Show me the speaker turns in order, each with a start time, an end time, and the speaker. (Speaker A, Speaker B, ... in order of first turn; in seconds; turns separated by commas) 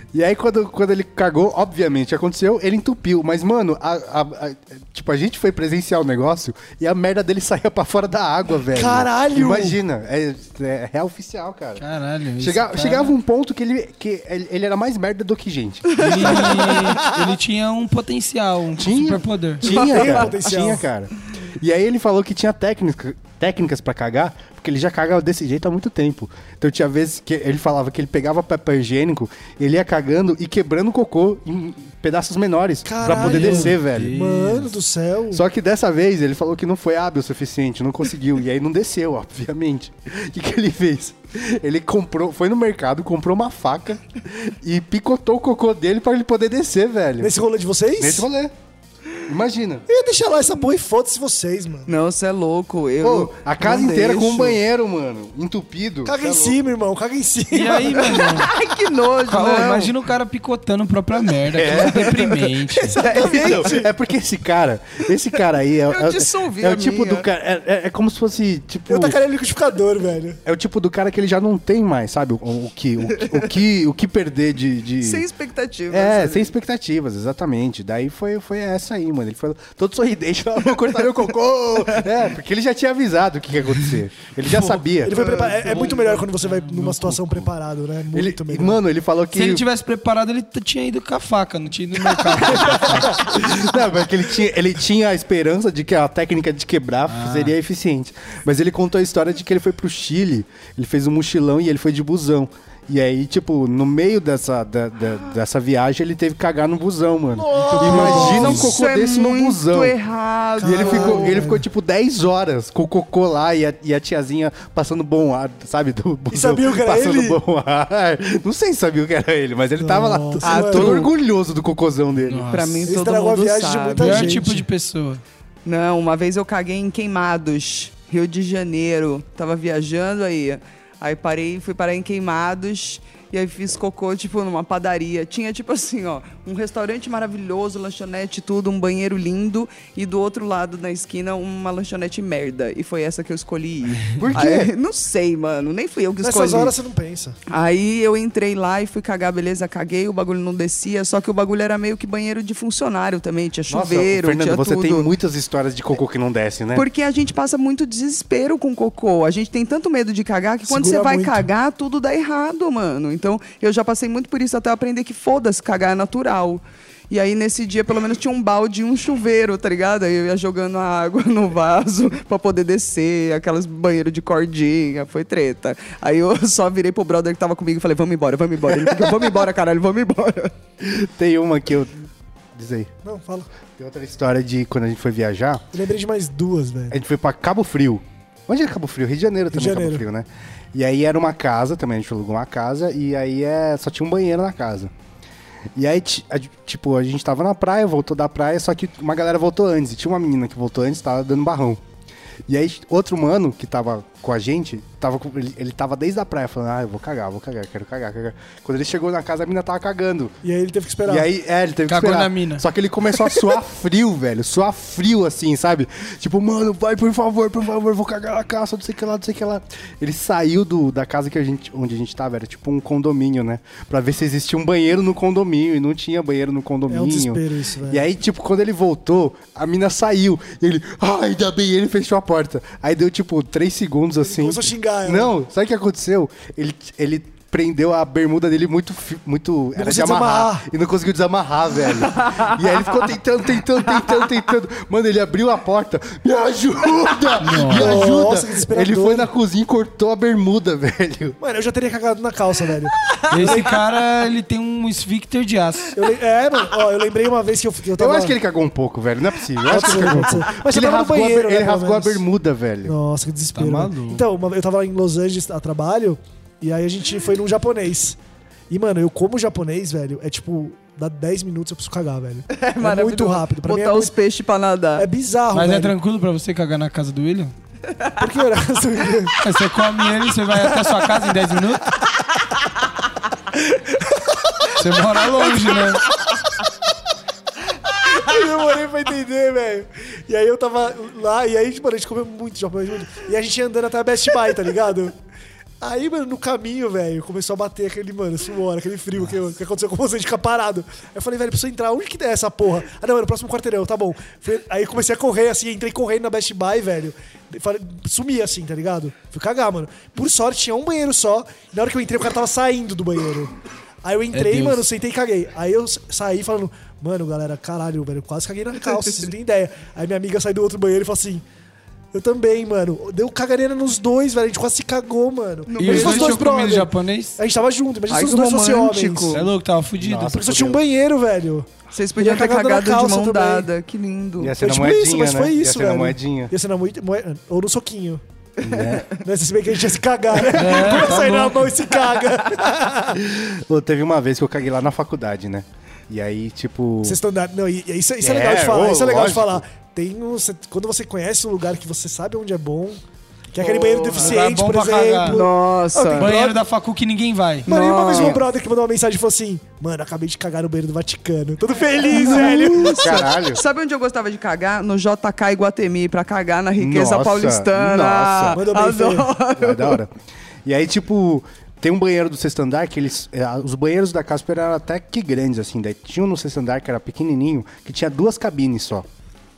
Speaker A: 0.1-11.8, Speaker B: 8.7-9.8, Speaker C: 11.8-13.1, Speaker A: 12.4-16.5, Speaker D: 15.9-17.0, Speaker C: 16.0-19.8, Speaker A: 18.8-34.1, Speaker B: 19.6-20.8, Speaker D: 19.7-20.3, Speaker B: 32.8-35.4, Speaker C: 33.0-34.7, Speaker A: 35.3-47.3, Speaker B: 47.2-48.3, Speaker A: 48.0-48.5, Speaker A: 49.2-49.9, Speaker B: 49.9-51.9, Speaker D: 51.9-54.6, Speaker A: 53.0-56.6, Speaker B: 56.0-58.3, Speaker C: 57.5-58.5, Speaker D: 58.0-59.9, Speaker C: 59.3-63.0, Speaker A: 61.5-62.2, Speaker D: 61.6-63.8, Speaker B: 62.8-63.9, Speaker A: 63.1-69.2, Speaker D: 65.9-67.3, Speaker B: 68.9-70.4, Speaker A: 70.4-75.2, Speaker D: 75.0-76.5, Speaker A: 75.9-85.1, Speaker C: 84.5-84.8, Speaker B: 85.0-88.8, Speaker D: 85.1-85.9, Speaker C: 85.6-87.3, Speaker A: 88.1-89.6, Speaker C: 89.3-93.4, Speaker A: 93.2-109.9, Speaker C: 97.1-97.5, Speaker B: 107.3-108.7, Speaker C: 107.6-108.7, Speaker D: 107.9-111.4, Speaker B: 110.6-111.6, Speaker A: 110.6-122.5, Speaker B: 116.3-117.4, Speaker B: 119.8-121.1, Speaker D: 120.4-121.1, Speaker C: 122.3-122.9, Speaker D: 122.5-124.4, Speaker B: 122.8-124.7, Speaker C: 124.0-125.2, Speaker D: 125.6-146.7, Speaker A: 144.2-144.7, Speaker B: 146.2-147.4, Speaker D: 147.5-155.1, Speaker A: 153.7-156.8, Speaker D: 156.7-180.5, Speaker B: 160.6-161.5, Speaker A: 180.8-181.9, Speaker A: 182.5-182.9, Speaker B: 183.0-183.5, Speaker A: 183.7-185.6, Speaker B: 185.7-187.0, Speaker A: 186.9-194.9, Speaker B: 189.5-190.1, Speaker A: 195.8-201.8, Speaker A: 202.5-210.3, Speaker B: 210.4-211.3, Speaker A: 211.1-251.4, Speaker C: 211.9-212.6, Speaker B: 226.9-228.0, Speaker B: 234.2-235.3, Speaker B: 239.7-240.7, Speaker D: 242.2-242.5, Speaker C: 247.4-248.1, Speaker B: 247.7-249.3, Speaker B: 251.4-253.8, Speaker C: 253.3-255.9, Speaker B: 255.9-258.4, Speaker A: 258.0-262.9, Speaker B: 259.6-262.3, Speaker B: 262.8-268.2, Speaker C: 263.5-264.2, Speaker B: 268.7-274.1, Speaker D: 272.5-275.1, Speaker B: 274.9-275.9, Speaker C: 275.5-277.5, Speaker B: 278.2-279.3, Speaker C: 279.4-281.9, Speaker C: 284.7-286.0, Speaker B: 288.1-295.1, Speaker B: 295.8-321.4, Speaker C: 314.3-314.8, Speaker B: 322.1-329.4, Speaker D: 325.7-326.5, Speaker C: 325.8-327.4, Speaker D: 328.1-329.4, Speaker C: 329.3-330.4, Speaker A: 330.0-330.8, Speaker B: 330.2-333.7, Speaker D: 331.9-334.5, Speaker A: 334.4-336.5, Speaker B: 334.6-338.2, Speaker A: 338.6-339.1, Speaker D: 338.7-339.0, Speaker B: 339.2-343.2, Speaker C: 340.5-341.7, Speaker A: 343.2-347.2, Speaker B: 347.0-353.0, Speaker A: 348.2-349.6, Speaker B: 353.5-356.6, Speaker D: 353.6-354.4, Speaker C: 354.1-355.4, Speaker D: 355.2-356.3, Speaker C: 356.1-357.7, Speaker D: 357.6-358.4, Speaker B: 357.7-363.2, Speaker A: 358.1-358.4, Speaker D: 362.0-370.0, Speaker A: 362.4-363.6, Speaker A: 366.8-368.6, Speaker B: 368.5-369.3, Speaker A: 369.5-370.1, Speaker A: 370.6-379.1